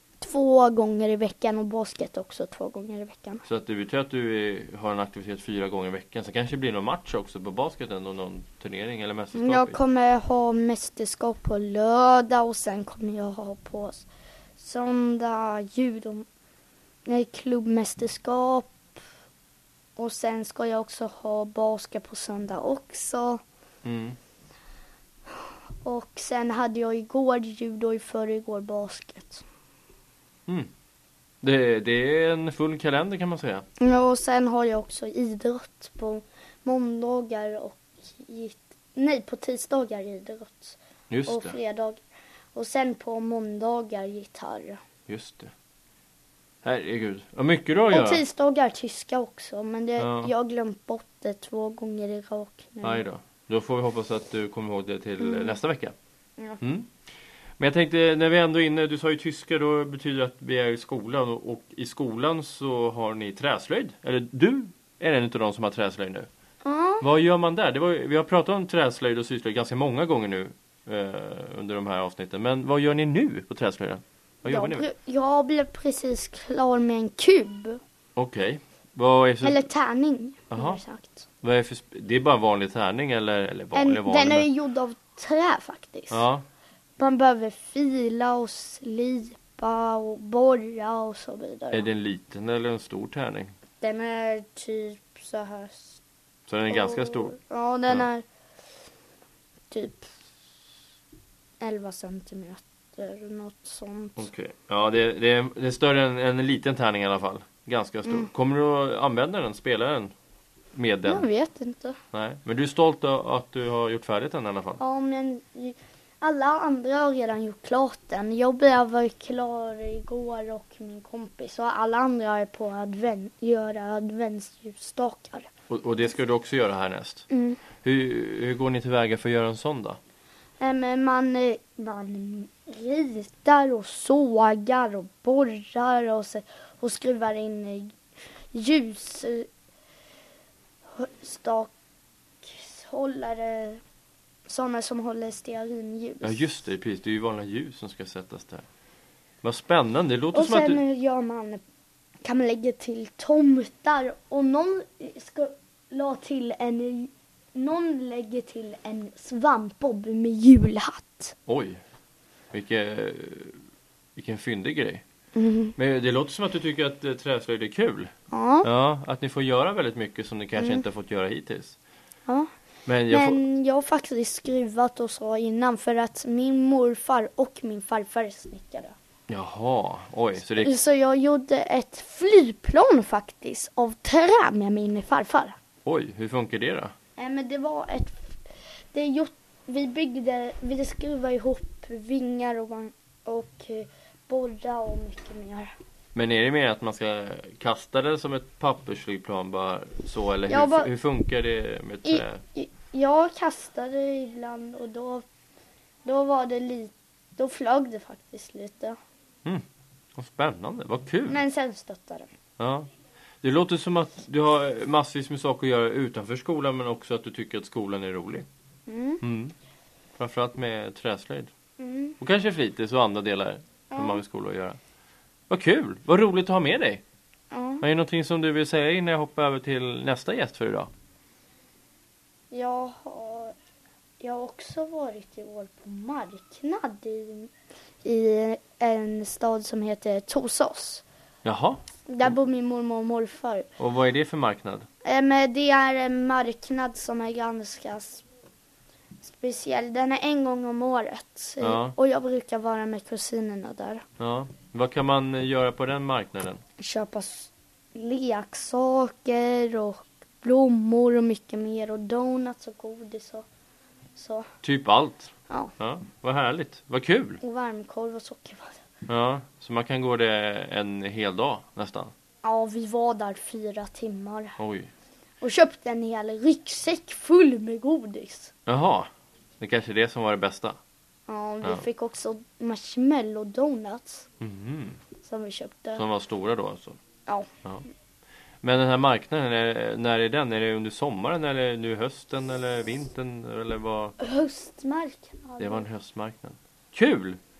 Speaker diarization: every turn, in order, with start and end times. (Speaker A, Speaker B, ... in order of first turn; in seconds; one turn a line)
Speaker A: 0.2-3.4
Speaker B: 3.4-9.8
Speaker A: 9.3-14.1
Speaker A: 14.6-16.2
Speaker A: 17.1-18.9
Speaker A: 20.0-23.4
Speaker B: 23.8-24.2
Speaker A: 25.8-29.4
Speaker B: 31.4-33.6
Speaker A: 33.8-42.0
Speaker B: 41.1-41.6
Speaker A: 42.5-44.8
Speaker B: 45.1-45.5
Speaker B: 46.6-48.2
Speaker A: 47.9-53.0
Speaker B: 50.0-50.3
Speaker B: 52.8-55.9
Speaker A: 55.2-55.5
Speaker B: 56.6-56.9
Speaker B: 57.6-66.3
Speaker A: 66.6-67.0
Speaker B: 67.0-74.8
Speaker A: 74.5-77.8
Speaker B: 78.2-79.7
Speaker A: 79.4-81.2
Speaker B: 80.5-80.8
Speaker B: 81.4-84.5
Speaker A: 83.7-86.2
Speaker B: 86.1-86.4
Speaker A: 87.0-91.9
Speaker B: 91.7-93.5
Speaker A: 93.8-96.0
Speaker B: 96.5-97.3
Speaker A: 96.7-98.2
Speaker A: 99.7-100.1
Speaker A: 101.6-104.3
Speaker B: 104.2-110.1
Speaker B: 110.7-111.3
Speaker A: 111.0-112.0
Speaker B: 112.1-114.8
Speaker A: 114.8-125.5
Speaker B: 125.7-127.2
Speaker A: 127.3-127.6
Speaker B: 127.8-130.0
Speaker A: 130.6-137.9
Speaker A: 138.5-139.5
Speaker A: 140.9-141.7
Speaker A: 142.4-143.8
Speaker A: 144.5-146.5
Speaker B: 146.2-148.7
Speaker B: 149.4-150.8
Speaker A: 150.3-151.6
Speaker A: 152.2-161.3
Speaker B: 161.5-161.8
Speaker B: 162.5-163.6
Speaker B: 164.1-165.0
Speaker A: 165.3-165.7
Speaker B: 165.8-168.1
Speaker A: 168.3-168.7
Speaker B: 168.6-171.8
Speaker A: 170.6-170.8
Speaker B: 172.8-173.4
Speaker A: 173.1-178.9
Speaker B: 179.3-180.7
Speaker A: 180.6-185.6
Speaker B: 185.8-186.9
Speaker A: 187.2-188.2
Speaker A: 188.9-195.7
Speaker B: 196.1-202.4
Speaker A: 200.5-200.9
Speaker A: 202.0-205.2
Speaker A: 206.0-209.0
Speaker B: 210.1-211.4
Speaker A: 211.3-212.3
Speaker B: 212.6-212.9
Speaker B: 213.4-218.4
Speaker A: 218.9-219.2
Speaker B: 219.2-219.5
Speaker B: 220.2-221.5
Speaker A: 221.8-222.2
Speaker B: 222.2-224.8
Speaker A: 223.9-224.2
Speaker B: 225.5-227.0
Speaker A: 227.5-227.8
Speaker B: 227.8-230.9
Speaker A: 232.5-233.5
Speaker A: 234.2-237.5
Speaker A: 238.0-241.0
Speaker B: 241.4-242.3
Speaker A: 242.1-243.7
Speaker B: 243.8-244.9
Speaker A: 245.0-248.2
Speaker A: 249.2-254.0
Speaker B: 251.6-251.9
Speaker B: 254.2-256.6
Speaker A: 256.8-263.4
Speaker A: 264.1-264.5
Speaker B: 264.6-267.4
Speaker A: 267.4-268.8
Speaker B: 269.1-272.1
Speaker A: 272.4-274.6
Speaker B: 274.6-274.9
Speaker A: 275.4-278.5
Speaker B: 278.6-279.1
Speaker B: 279.6-280.8
Speaker A: 281.3-284.3
Speaker B: 284.4-285.0
Speaker A: 285.2-286.0
Speaker B: 285.9-287.0
Speaker B: 288.6-294.1
Speaker A: 294.2-295.8
Speaker B: 295.6-297.4